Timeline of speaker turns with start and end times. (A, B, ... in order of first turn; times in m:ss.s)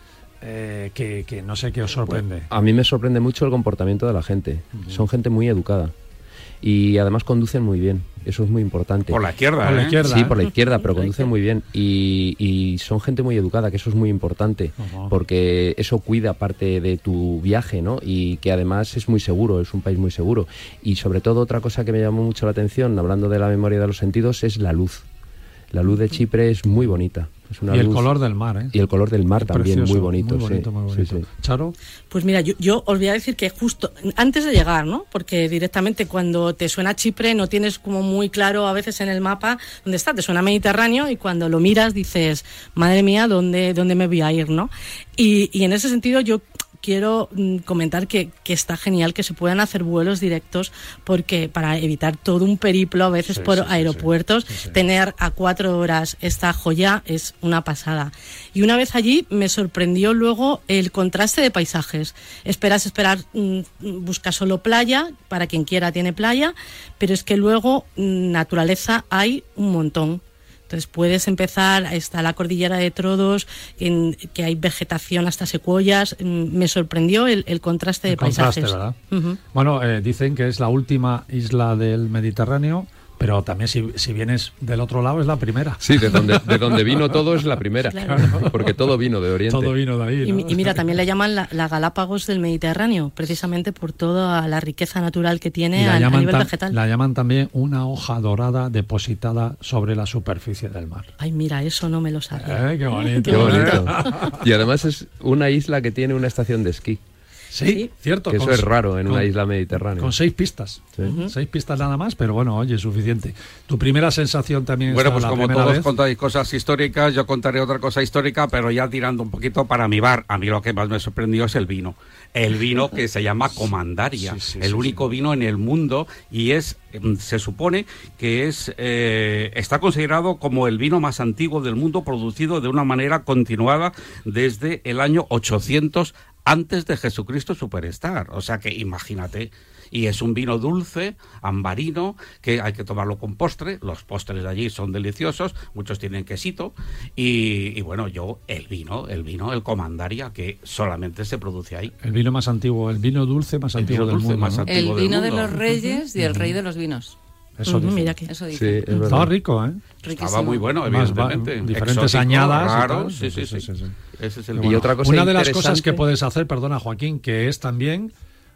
0:00.4-0:02.5 A
0:02.1-0:05.9 B
0:04.7-0:05.0 A
0:06.6-0:09.2 B
0:09.1-0:10.0 C
0:09.6-0:10.4 A
0:09.9-0:25.0 B
0:10.1-0:10.4 D
0:11.0-0:11.2 D
0:14.8-0:15.1 A
0:25.7-0:28.1 B
0:27.7-0:28.7 A
0:28.7-0:31.2 B
0:29.4-0:31.7 A
0:32.1-1:19.4 D
0:53.3-0:54.8 A
1:18.1-1:19.0 A
1:19.5-1:27.1 A
1:25.8-1:29.7 B
1:27.9-1:28.4 D
1:28.1-1:28.9 A
1:29.5-1:30.8 A
1:30.2-1:36.8 D
1:35.7-1:41.1 A
1:41.2-1:44.2 D
1:42.4-1:44.4 A
1:43.3-1:47.0 B
1:47.5-1:55.9 A
1:48.3-1:50.1 B
1:51.0-1:51.3 D
1:54.9-2:31.9 C
2:03.5-2:05.0 A
2:32.0-2:34.7 A
2:33.8-2:35.6 C
2:34.6-2:37.2 E
2:36.2-2:36.6 A
2:37.6-2:38.1 A
2:37.6-2:38.3 D
2:38.3-2:39.0 E
2:38.5-2:39.3 B
2:39.1-2:39.8 A
2:40.0-2:40.6 E
2:40.0-2:43.7 C
2:40.8-2:43.9 A
2:44.2-2:44.9 C
2:44.5-2:48.1 A
2:44.6-2:46.0 B